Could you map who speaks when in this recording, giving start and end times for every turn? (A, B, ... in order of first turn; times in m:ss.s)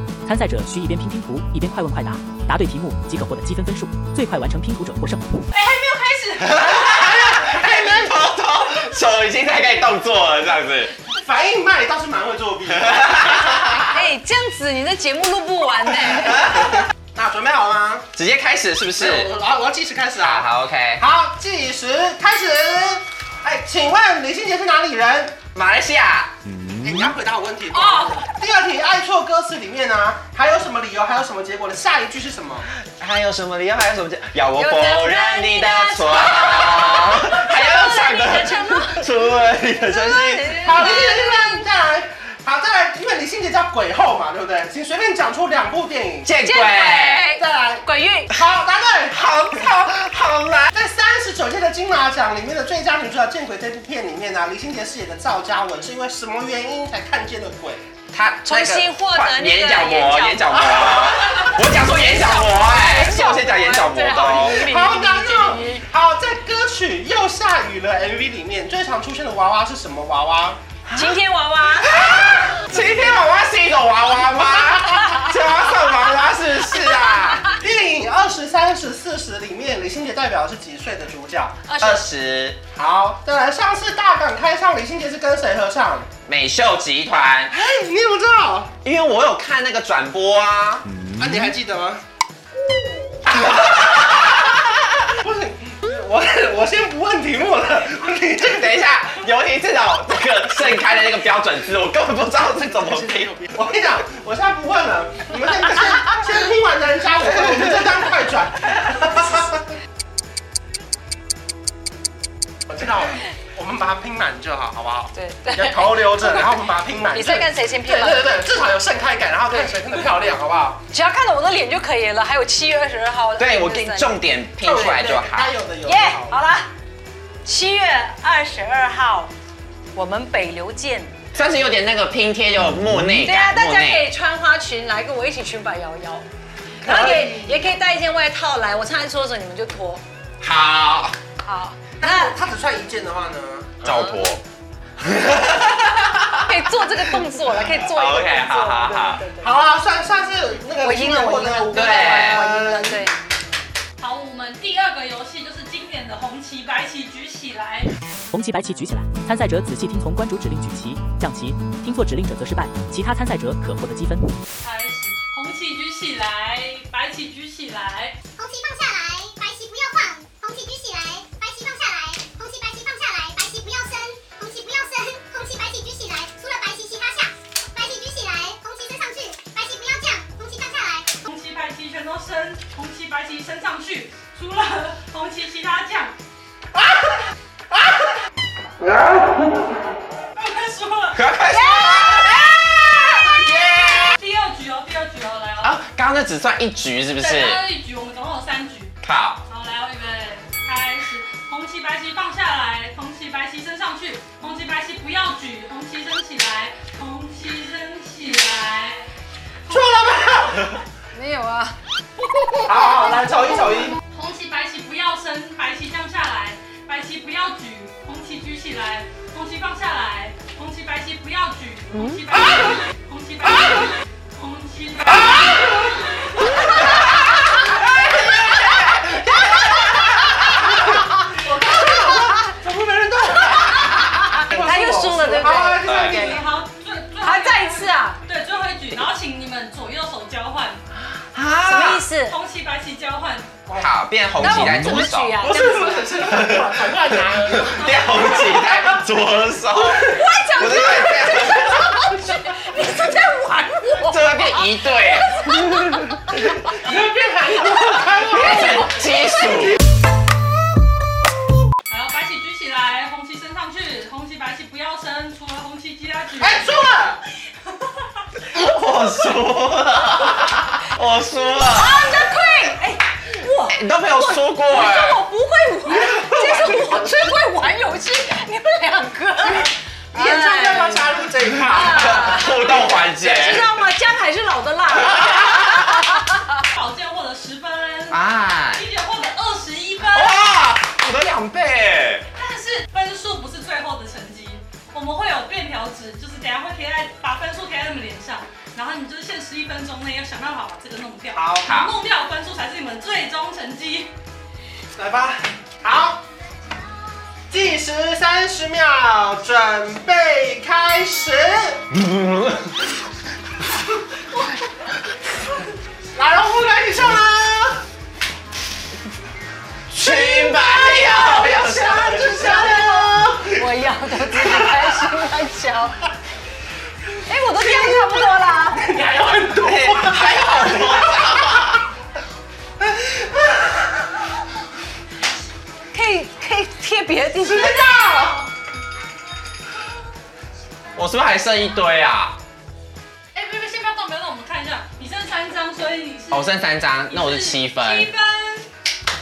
0:00.2-0:05.4 A
0:05.5-0:07.2 B
0:06.5-0:10.9 C
0:06.9-0:08.1 D
0:11.1-0:13.7 D
0:12.9-0:13.8 C
0:13.8-0:16.8 E
0:17.1-0:18.0 D
0:18.1-0:19.3 C
0:19.0-0:25.4 D
0:20.2-0:21.0 C
0:25.5-0:26.3 C
0:26.6-0:32.7 D
0:27.7-0:28.2 B
0:32.9-0:41.0 C
0:34.5-0:39.1 E
0:39.7-0:41.6 E
0:40.6-0:46.3 D
0:46.2-0:47.2 C
0:46.4-0:48.4 E
0:47.3-0:49.8 D
0:49.1-0:50.7 C
0:50.7-0:57.9 D
0:58.1-1:04.7 C
0:58.4-1:05.8 E
1:00.5-1:01.5 D
1:04.1-1:10.6 D
1:10.9-1:12.1 E
1:11.8-1:17.5 C
1:14.7-1:15.3 E
1:17.5-1:21.6 D
1:21.7-1:22.0 E
1:21.8-1:22.6 C
1:22.7-1:26.1 D
1:26.3-1:27.5 C
1:27.5-1:28.7 D
1:28.8-1:30.9 C
1:31.1-1:32.0 D
1:33.4-1:34.5 C
1:35.1-1:38.8 D
1:38.4-1:43.4 C
1:42.8-1:49.6 D
1:52.7-2:00.8 D
1:55.1-1:56.6 E
1:57.1-1:58.6 E
1:59.5-2:00.0 E
2:00.9-2:04.2 E
2:03.4-2:05.5 C
2:04.6-2:06.4 D
2:05.8-2:06.7 E
2:07.4-2:09.3 E
2:09.9-2:11.2 E
2:11.3-2:14.0 C
2:13.1-2:16.3 E
2:16.8-2:20.0 E
2:16.8-2:17.6 D
2:20.4-2:21.2 C
2:21.4-2:22.3 E
2:22.0-2:23.8 D
2:23.8-2:24.4 C
2:23.9-2:24.3 E
2:25.0-2:26.5 C
2:26.4-2:29.5 E
2:27.6-2:29.2 C
2:29.4-2:33.1 D
2:30.8-2:33.3 E
2:31.7-2:32.4 C
2:34.0-2:37.9 B
2:38.3-2:44.3 A
2:44.6-2:48.2 B
2:48.4-3:01.1 F
3:01.2-3:06.1 B
3:06.8-3:07.1 D
3:10.4-3:11.2 B
3:11.1-3:13.5 C
3:11.5-3:12.5 E
3:14.0-3:15.8 B
3:15.6-3:17.6 C
3:17.2-3:19.0 B
3:19.0-3:19.4 C
3:19.5-3:29.0 B
3:29.7-3:29.9 B
3:29.7-3:30.8 D
3:31.1-3:31.8 E
3:32.4-3:33.1 E
3:32.6-3:34.0 D
3:34.1-3:47.2 B
3:48.0-3:56.5 D
3:53.9-3:56.4 E
3:55.8-3:56.2 C
3:56.0-4:00.8 B
3:57.2-3:58.2 E
4:01.3-4:02.0 C
4:01.6-4:02.4 E
4:02.2-4:03.5 B
4:03.7-4:05.5 C
4:04.4-4:06.3 E
4:05.4-4:08.9 D
4:06.3-4:06.7 C
4:07.3-4:12.0 C
4:07.7-4:08.4 B
4:09.7-4:16.8 E
4:14.0-4:15.6 C
4:16.7-4:18.9 D
4:18.2-4:19.8 C
4:21.9-4:26.8 B
4:26.4-4:27.2 D
4:28.4-4:32.1 C
4:31.6-4:46.6 E
4:33.7-4:35.2 C
4:36.3-4:36.7 C
4:40.1-4:42.4 D
4:41.8-4:43.6 C
4:46.7-4:48.2 B
4:48.1-4:48.8 C
4:48.7-4:50.5 B
4:50.0-4:52.2 C
4:52.4-5:04.1 B
5:01.3-5:01.6 D
5:01.6-5:01.9 C
5:05.0-5:06.2 D
5:07.5-5:11.8 D
5:12.0-5:12.6 C
5:16.1-5:17.8 D
5:19.9-5:22.4 C
5:20.0-5:23.6 D
5:21.6-5:26.1 E
5:24.3-5:25.0 D
5:27.3-5:28.8 E
5:27.6-5:28.1 D
5:28.7-5:31.5 D
5:29.6-5:31.8 C
5:32.8-5:34.1 D
5:35.9-5:38.0 E
5:37.4-5:38.5 D
5:40.9-5:42.4 C
5:43.3-5:46.6 B
5:46.3-5:48.1 C
5:47.1-5:48.7 B